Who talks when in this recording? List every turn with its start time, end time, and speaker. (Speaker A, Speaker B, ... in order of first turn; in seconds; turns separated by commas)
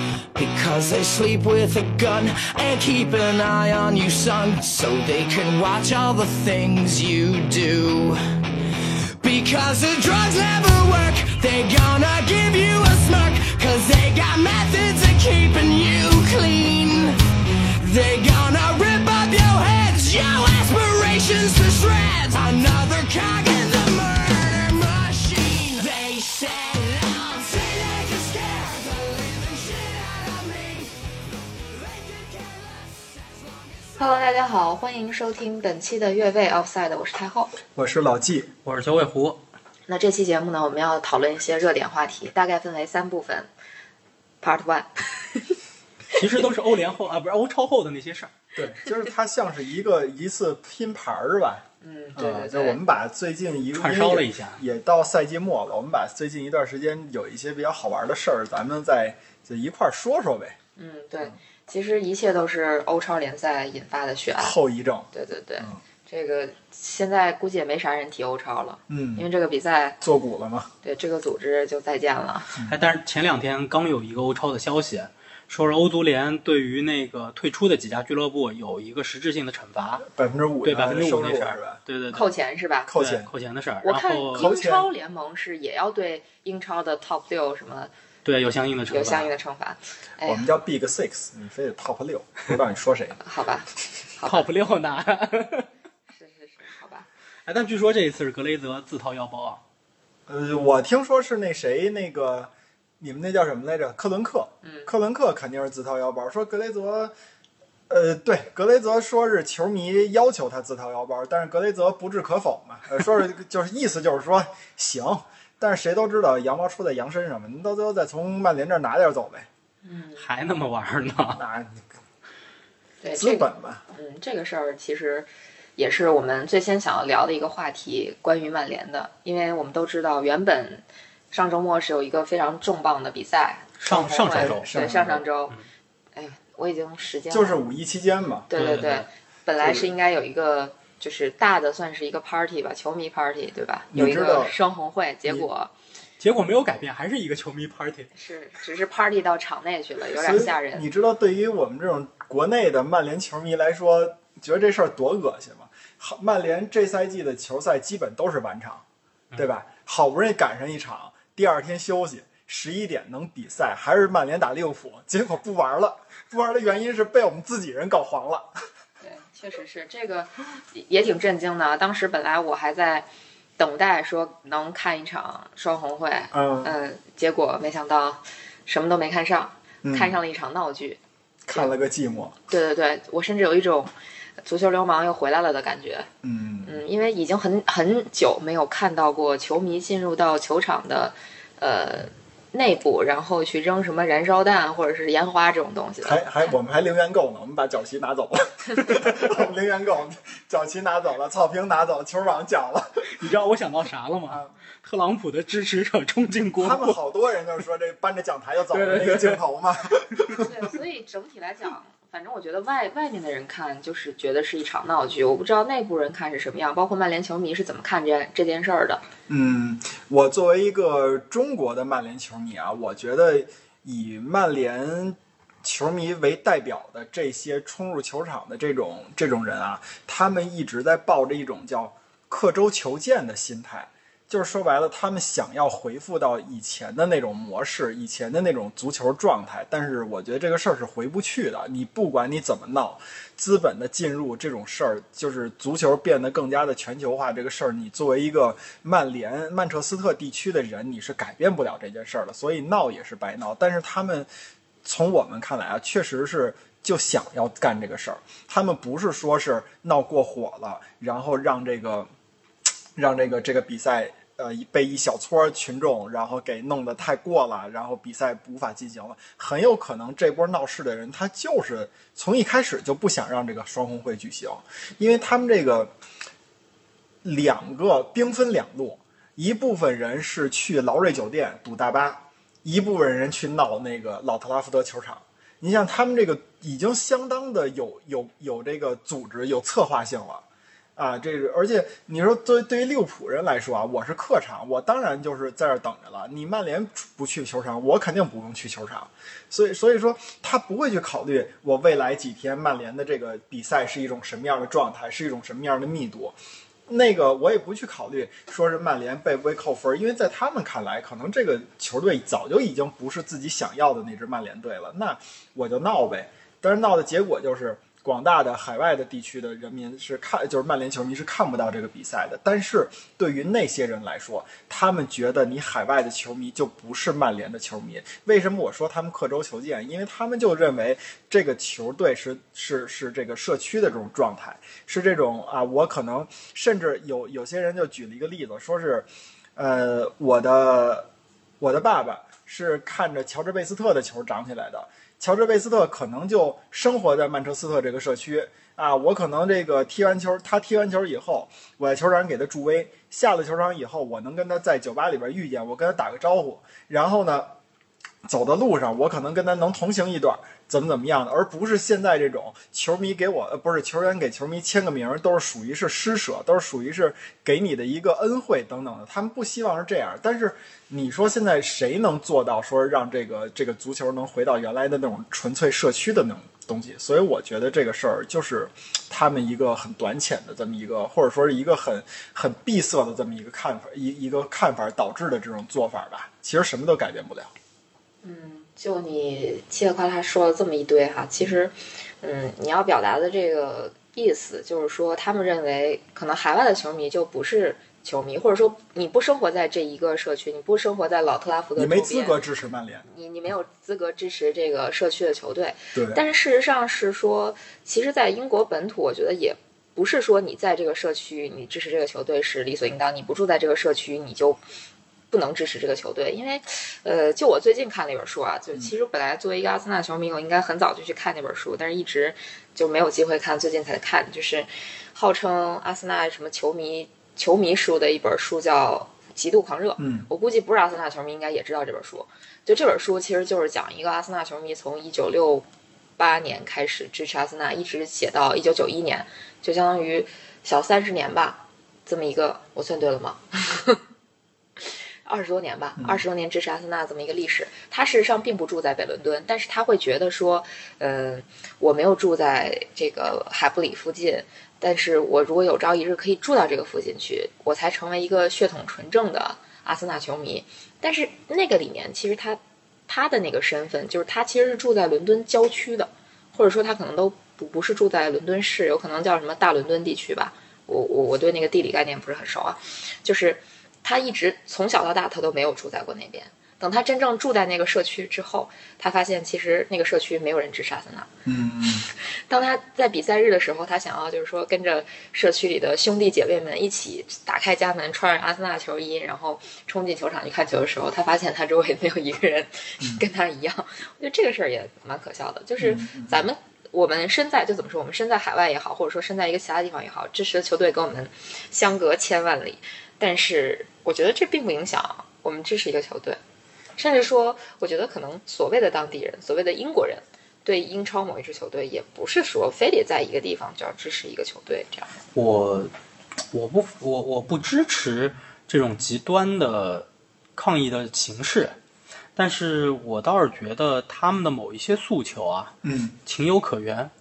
Speaker A: 0.3-8.2, Speaker A: 9.2-17.2, Speaker A: 17.8-30.9, Speaker A: 31.6-34.0, Speaker B: 34.0-37.5, Speaker C: 37.7-38.5, Speaker D: 38.6-39.4, Speaker B: 39.9-43.5, Speaker B: 44.4-45.5, Speaker D: 46.1-48.3, Speaker C: 48.5-60.5, Speaker B: 51.8-52.8, Speaker D: 53.7-54.6, Speaker B: 60.8-64.6, Speaker C: 64.4-65.1, Speaker B: 65.1-70.0, Speaker C: 68.9-69.2, Speaker C: 70.0-70.7, Speaker B: 70.8-72.5, Speaker D: 72.6-80.0, Speaker C: 80.0-81.8, Speaker D: 80.6-82.3, Speaker B: 82.1-82.9, Speaker C: 82.9-83.3, Speaker D: 82.9-84.5, Speaker B: 83.8-87.9, Speaker C: 84.3-84.9, Speaker D: 88.2-89.3, Speaker B: 88.9-90.5, Speaker C: 90.2-93.2, Speaker B: 93.2-94.5, Speaker D: 94.2-95.7, Speaker B: 96.1-97.1, Speaker D: 97.5-99.6, Speaker C: 100.3-107.1, Speaker B: 104.6-104.9, Speaker C: 107.9-119.5, Speaker B: 119.8-120.2, Speaker D: 120.2-121.4, Speaker C: 121.3-121.8, Speaker B: 123.0-135.6, Speaker C: 123.1-123.8, Speaker D: 133.8-134.7, Speaker C: 134.3-135.2, Speaker B: 136.2-137.6, Speaker C: 137.3-138.5, Speaker B: 138.5-145.7, Speaker D: 138.5-139.1, Speaker C: 139.6-139.9, Speaker C: 143.9-144.5, Speaker D: 146.2-148.1, Speaker B: 148.1-150.8, Speaker C: 150.1-158.8, Speaker C: 159.3-168.5, Speaker B: 169.0-173.1, Speaker B: 173.6-181.0, Speaker C: 176.3-176.7, Speaker C: 179.8-180.2, Speaker C: 181.4-182.3, Speaker B: 182.5-183.9, Speaker B: 184.4-186.1, Speaker C: 186.2-186.7, Speaker B: 186.6-196.5, Speaker C: 196.0-203.1, Speaker D: 203.1-207.0, Speaker C: 206.6-210.5, Speaker D: 208.7-209.4, Speaker B: 210.3-219.0, Speaker C: 219.3-254.3, Speaker C: 254.8-262.1, Speaker C: 262.9-275.9, Speaker C: 277.2-290.4, Speaker C: 290.9-341.1, Speaker C: 341.6-357.5, Speaker C: 358.2-387.5, Speaker B: 388.2-402.4, Speaker C: 401.8-403.0, Speaker B: 403.1-414.6, Speaker C: 405.9-406.2, Speaker B: 415.3-435.6, Speaker C: 430.0-430.3, Speaker B: 436.2-444.0, Speaker B: 444.8-481.3, Speaker C: 481.4-482.1, Speaker B: 482.5-506.4, Speaker C: 495.8-496.4, Speaker B: 507.0-515.2, Speaker D: 515.3-515.9, Speaker D: 516.5-521.8, Speaker D: 522.3-525.7, Speaker C: 525.8-526.1, Speaker D: 526.2-527.1